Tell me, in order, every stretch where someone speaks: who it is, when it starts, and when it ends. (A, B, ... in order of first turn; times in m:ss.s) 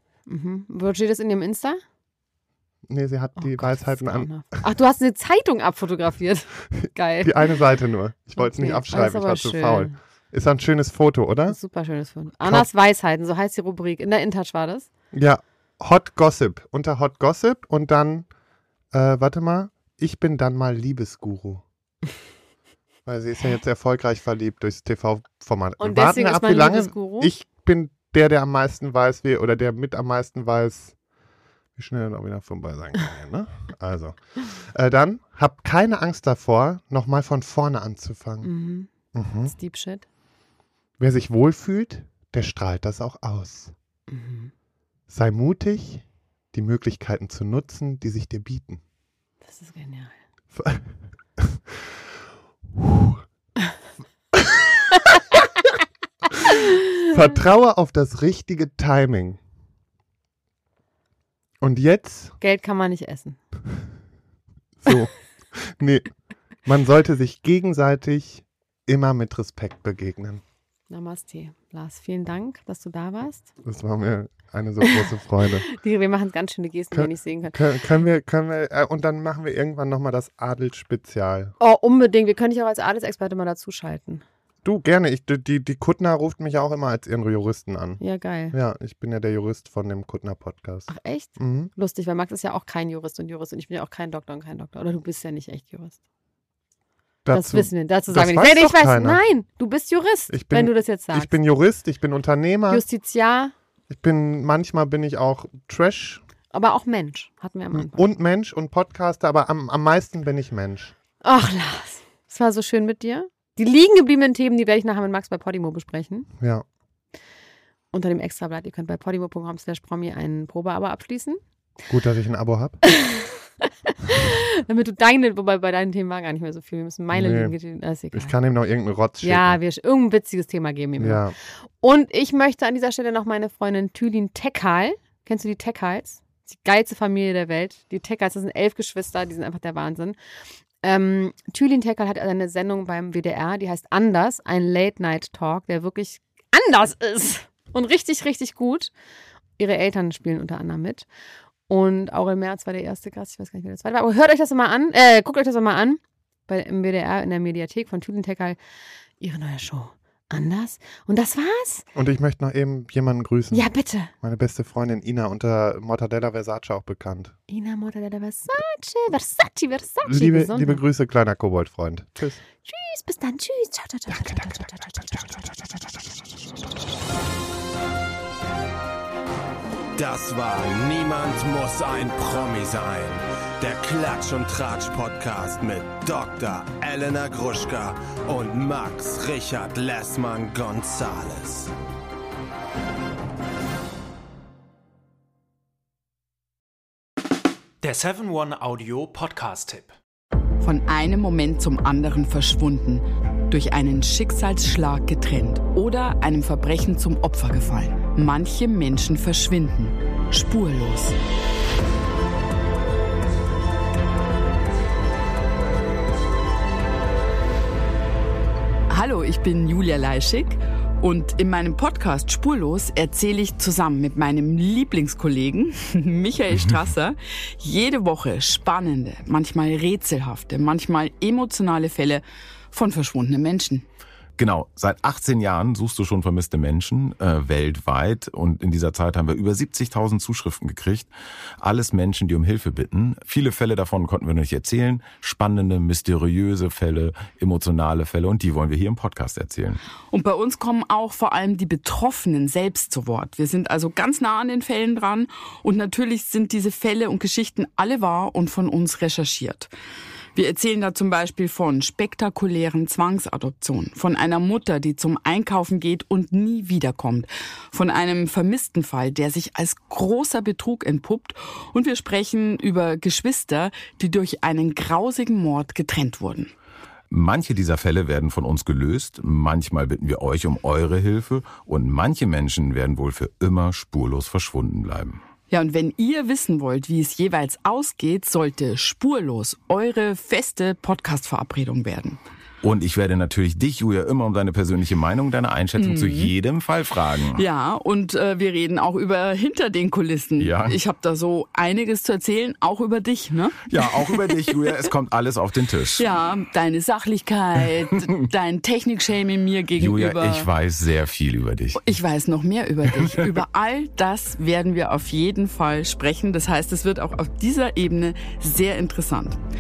0:00.3-0:01.8 A
0:02.9-0:04.4 B
0:03.4-0:07.5 A
0:07.2-0:11.6 B
0:08.4-0:10.0 A
0:11.5-0:14.9 A
0:15.1-0:18.3 B
0:18.9-0:21.6 B
0:23.1-0:31.0 B
0:25.8-0:27.3 A
0:31.8-0:38.5 B
0:38.4-0:38.9 A
0:39.1-0:39.5 B
0:39.5-0:40.1 A
0:41.0-0:43.7 B
0:44.1-0:44.5 A
0:45.1-0:48.8 B
0:49.4-0:50.1 A
0:50.5-0:51.9 B
0:52.8-0:53.2 B
0:54.3-0:55.2 B
0:56.3-0:59.4 B
1:01.6-1:02.4 B
1:02.4-1:03.4 A
1:04.8-1:06.1 B
1:06.6-1:10.4 B
1:10.9-1:13.5 A
1:13.6-1:15.7 B
1:15.6-1:17.8 A
1:16.9-1:21.5 B
1:21.6-1:24.2 A
1:24.6-1:28.0 B
1:28.0-1:28.6 A
1:28.5-1:31.7 B
1:30.9-1:36.0 A
1:37.2-1:39.2 B
1:37.3-1:41.4 A
1:40.3-1:42.8 B
1:42.7-1:43.5 A
1:43.9-1:46.2 B
1:46.5-1:48.1 A
1:47.7-1:50.9 B
1:51.2-1:56.3 A
1:56.4-1:56.6 B
1:57.9-2:01.4 A
2:01.9-2:02.8 B
2:02.8-2:08.4 A
2:07.1-2:07.5 B
2:08.1-2:09.6 B
2:09.2-2:11.2 A
2:11.0-2:11.3 B
2:11.8-2:20.2 A
2:20.8-2:28.9 A
2:29.6-2:31.1 A
2:31.7-2:38.6 A
2:39.2-2:41.9 A
2:42.0-2:47.4 B
2:43.5-2:44.1 A
2:47.5-2:50.8 A
2:50.0-2:52.4 B
2:52.6-2:56.0 A
2:54.1-2:55.5 B
3:00.0-3:11.7 C
3:17.8-3:20.0 D
3:20.6-3:31.2 E
3:38.9-3:53.8 E
3:54.4-4:01.1 F
4:01.6-4:09.8 F
4:10.1-4:19.7 E
4:20.4-4:36.5 E
4:37.1-4:45.2 F
4:45.5-4:52.2 E
4:52.6-4:57.4 F
4:55.8-4:56.3 E
4:57.4-5:04.9 E
5:00.4-5:00.8 F
5:03.7-5:06.0 F
5:06.0-5:10.5 E
5:09.8-5:12.0 F
5:11.8-5:19.4 E
5:12.9-5:13.4 F